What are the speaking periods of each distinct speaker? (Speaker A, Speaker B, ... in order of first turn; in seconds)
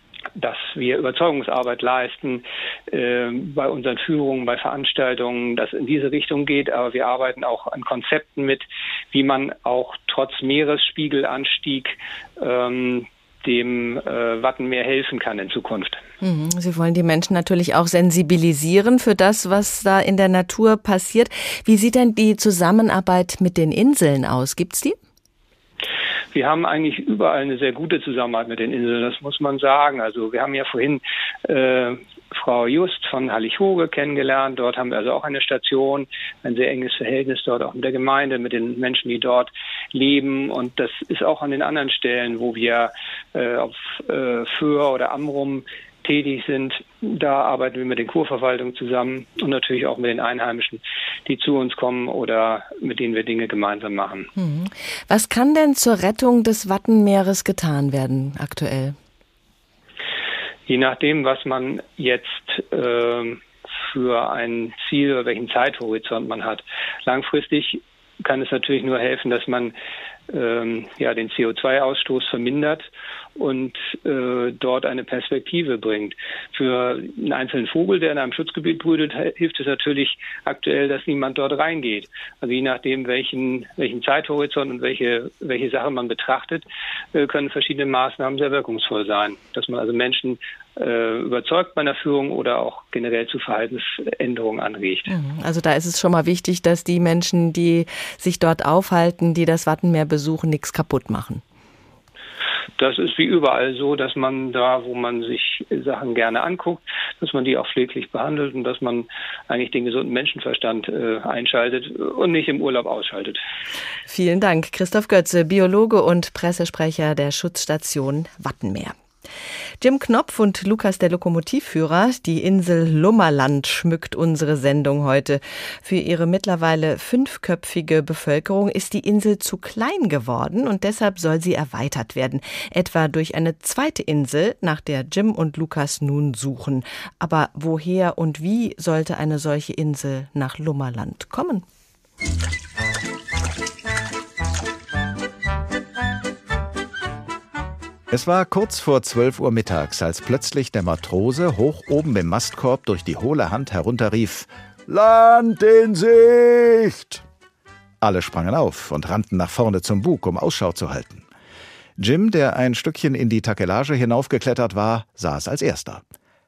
Speaker A: 0.4-16.0, 26.3-54.3, 60.7-69.7, 70.3-95.1, 102.8-113.4
Speaker B: 16.2-25.0, 54.4-59.0, 95.1-101.4, 114.1-119.0, 119.8-141.6
Speaker C: 148.1-157.2, 158.0-161.2, 162.0-166.0